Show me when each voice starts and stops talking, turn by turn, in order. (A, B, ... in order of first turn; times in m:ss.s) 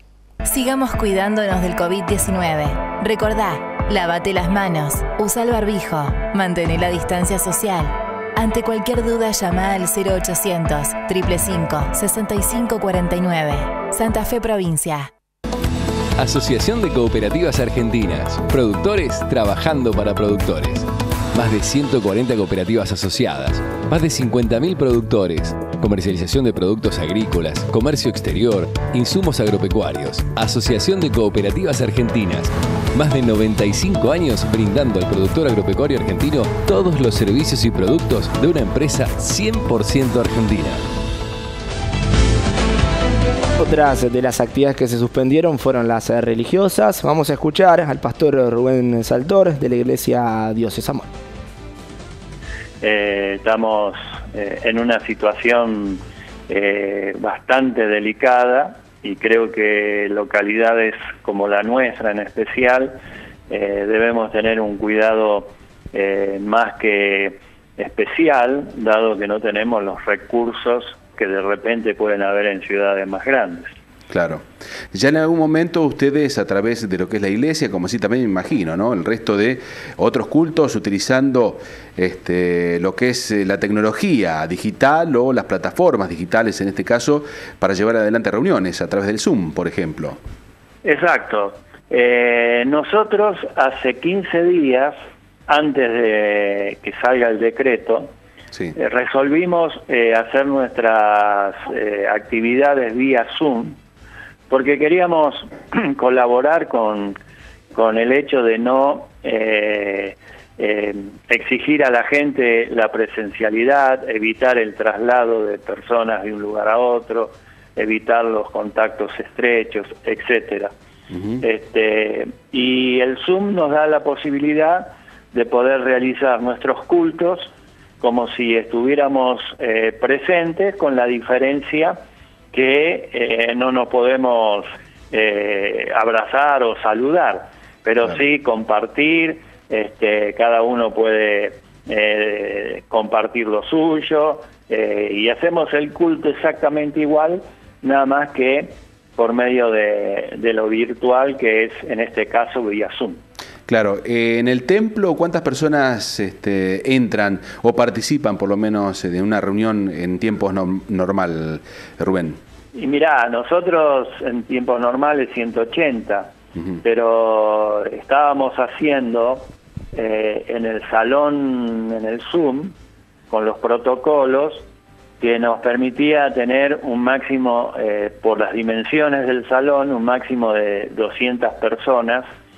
0:00.5-0:15.1 A
0:16.2-0:40.9 B
0:43.6-0:51.1 C
0:52.8-1:03.0 D
1:03.5-1:13.7 D
1:14.1-1:30.2 E
1:30.8-1:35.0 D
1:35.5-1:38.1 D
1:38.8-1:43.8 D
1:44.5-1:47.2 D
1:47.7-2:00.7 D
2:01.4-2:12.0 D
2:12.5-2:33.2 D
2:33.7-2:42.4 E
2:42.8-2:46.3 D
2:46.8-2:52.8 D
2:53.3-2:54.7 D
2:55.2-3:02.3 D